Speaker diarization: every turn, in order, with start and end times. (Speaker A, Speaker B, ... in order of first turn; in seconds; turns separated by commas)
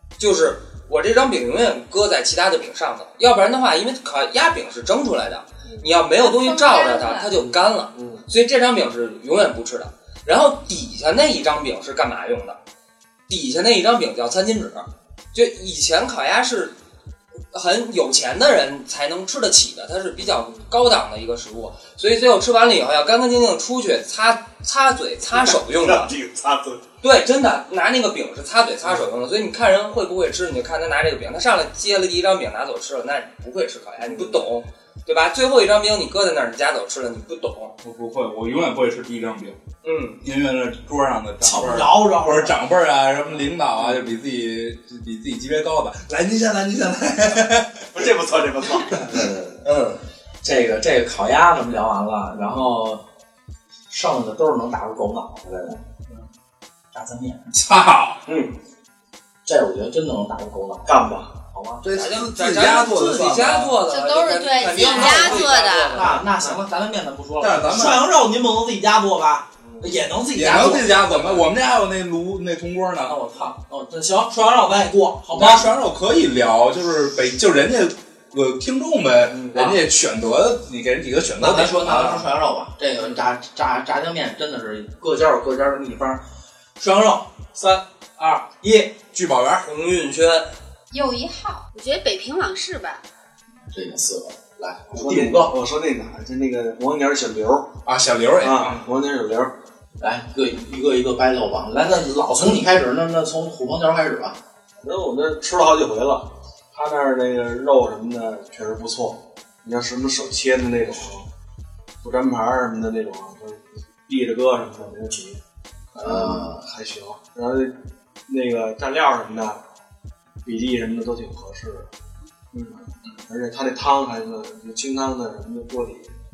Speaker A: 0.2-12.6, Speaker B: 6.2-7.4, Speaker C: 7.4-8.2, Speaker A: 13.3-16.8, Speaker A: 17.5-26.1, Speaker C: 25.3-26.8, Speaker A: 27.0-37.8, Speaker C: 34.0-34.5, Speaker D: 37.8-39.6, Speaker A: 39.8-40.2, Speaker D: 40.2-48.0, Speaker E: 41.4-42.6, Speaker C: 47.9-49.6, Speaker A: 49.6-50.0, Speaker E: 50.4-53.0, Speaker E: 53.9-55.8, Speaker E: 56.9-57.5, Speaker D: 57.5-58.2, Speaker C: 58.3-58.5, Speaker E: 59.5-61.8, Speaker C: 60.9-61.3, Speaker D: 61.8-63.8, Speaker A: 61.9-66.2, Speaker B: 63.9-65.3, Speaker F: 64.5-66.1, Speaker E: 65.8-71.4, Speaker D: 67.4-68.0, Speaker C: 69.6-69.9, Speaker D: 70.3-73.2, Speaker E: 73.0-75.8, Speaker D: 75.3-82.3, Speaker C: 79.3-79.7, Speaker E: 79.5-79.8, Speaker E: 81.4-86.2, Speaker E: 86.8-88.9, Speaker D: 88.9-89.7, Speaker A: 89.6-90.5, Speaker B: 90.9-91.7, Speaker F: 91.7-93.0, Speaker E: 93.7-95.5, Speaker C: 94.9-97.7, Speaker D: 97.8-98.8, Speaker C: 98.4-99.5, Speaker E: 100.0-104.4, Speaker C: 104.8-111.3, Speaker C: 112.0-115.4, Speaker C: 116.0-119.6, Speaker E: 116.0-116.6, Speaker C: 120.4-121.9, Speaker C: 122.5-126.1